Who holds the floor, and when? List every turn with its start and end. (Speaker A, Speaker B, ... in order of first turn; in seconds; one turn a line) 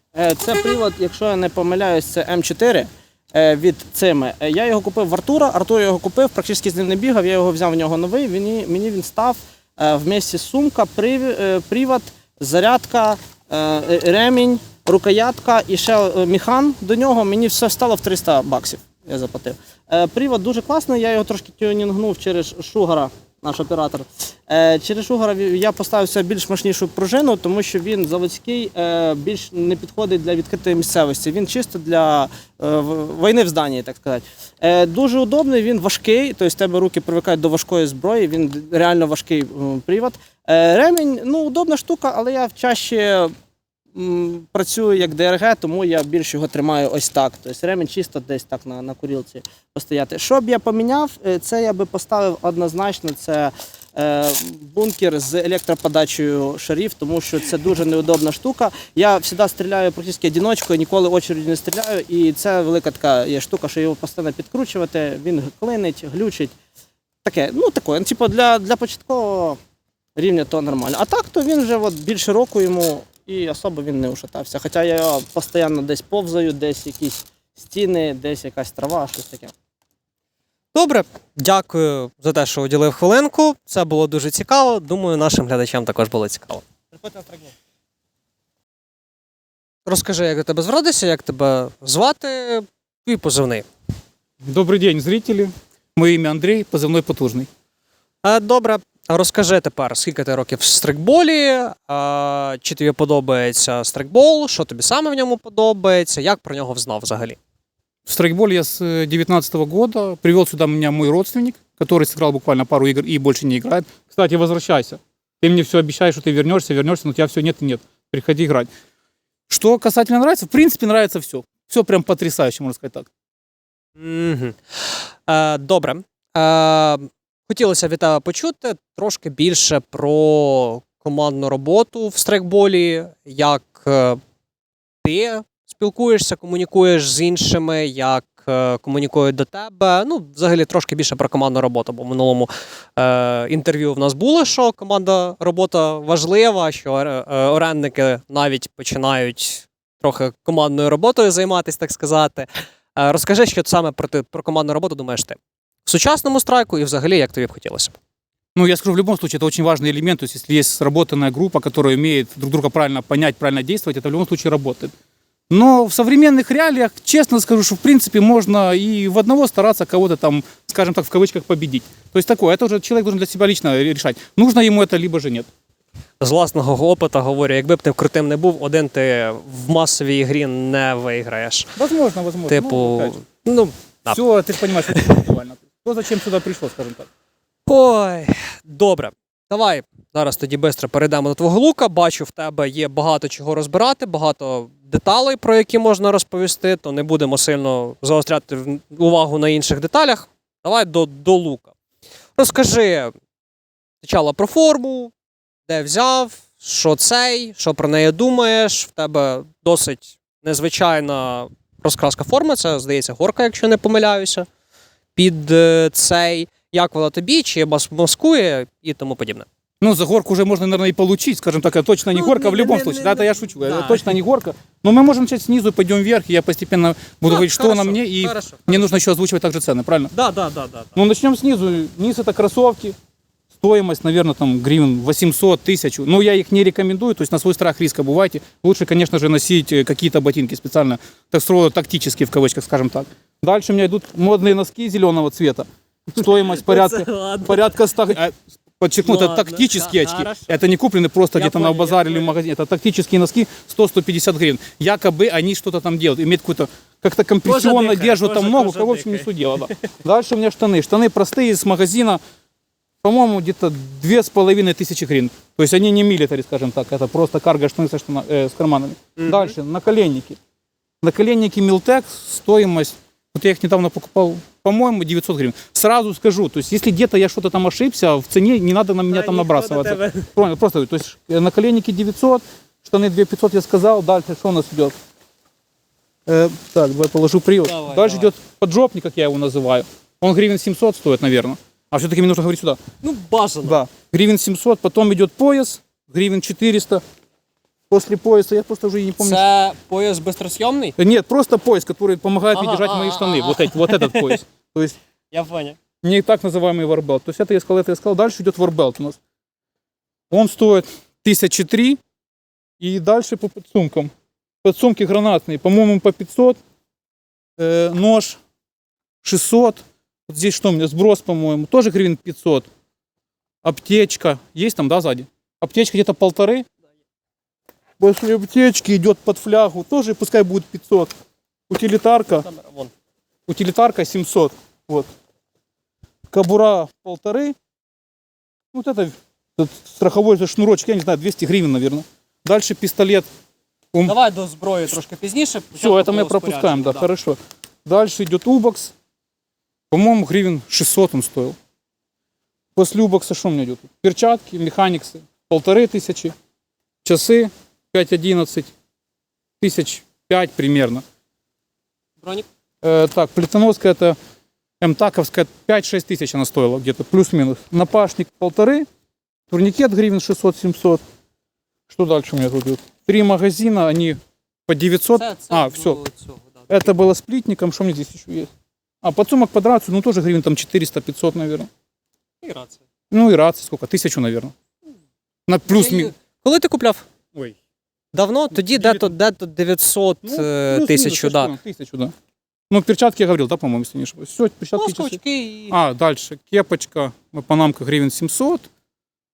Speaker A: 0.1-43.3
Speaker A: 43.9-66.5
Speaker A: 67.2-69.6
Speaker A: 70.2-79.5
Speaker B: 80.7-86.6
Speaker A: 86.9-87.5
Speaker B: 89.8-93.7
Speaker C: 94.4-97.5
Speaker B: 98.2-107.4
Speaker C: 108.0-118.7
Speaker C: 119.5-123.1
Speaker B: 124.0-134.2
Speaker B: 135.0-158.0
Speaker C: 158.5-164.9
Speaker C: 165.5-175.5
Speaker B: 176.2-181.7
Speaker C: 181.8-183.2
Speaker B: 182.5-184.2
Speaker C: 184.1-187.1
Speaker B: 187.7-201.7
Speaker B: 202.4-203.1
Speaker B: 204.0-205.1
Speaker B: 205.7-214.5
Speaker B: 215.1-219.5
Speaker C: 219.8-230.1
Speaker B: 222.1-224.1
Speaker B: 227.2-228.9
Speaker B: 230.1-230.9
Speaker C: 230.9-232.9
Speaker C: 233.6-262.2
Speaker B: 246.2-247.8
Speaker B: 249.0-250.5
Speaker B: 251.3-252.3
Speaker B: 257.4-259.3
Speaker C: 263.0-270.4
Speaker B: 269.2-269.5
Speaker C: 271.0-284.9
Speaker B: 279.1-280.3
Speaker C: 286.3-292.8
Speaker B: 287.6-288.3
Speaker B: 293.0-293.8
Speaker C: 293.6-297.0
Speaker C: 297.9-299.4
Speaker B: 299.2-300.9
Speaker C: 301.0-304.9
Speaker B: 302.5-304.4
Speaker B: 305.3-305.8
Speaker C: 306.0-309.2
Speaker C: 310.3-312.0
Speaker C: 312.8-314.1
Speaker C: 314.6-316.6
Speaker C: 317.6-318.4
Speaker C: 319.2-322.7
Speaker C: 323.6-326.6
Speaker C: 328.0-331.1
Speaker C: 331.7-332.4
Speaker B: 332.4-332.9
Speaker C: 333.5-335.1
Speaker C: 336.3-337.5
Speaker C: 338.7-343.3
Speaker B: 344.1-347.1
Speaker C: 345.8-348.9
Speaker C: 349.9-351.6
Speaker C: 352.7-356.3
Speaker C: 357.0-358.7
Speaker C: 359.6-361.0
Speaker C: 362.8-364.2
Speaker C: 364.8-368.9
Speaker C: 369.5-371.0
Speaker C: 371.9-376.0
Speaker B: 375.1-376.9
Speaker C: 376.7-378.5
Speaker C: 379.0-381.7
Speaker B: 382.4-382.8
Speaker C: 383.1-384.5
Speaker C: 385.4-386.1
Speaker B: 385.6-387.0
Speaker B: 388.1-391.5
Speaker C: 388.6-389.1
Speaker C: 390.2-392.1
Speaker C: 392.7-398.7
Speaker B: 394.7-395.8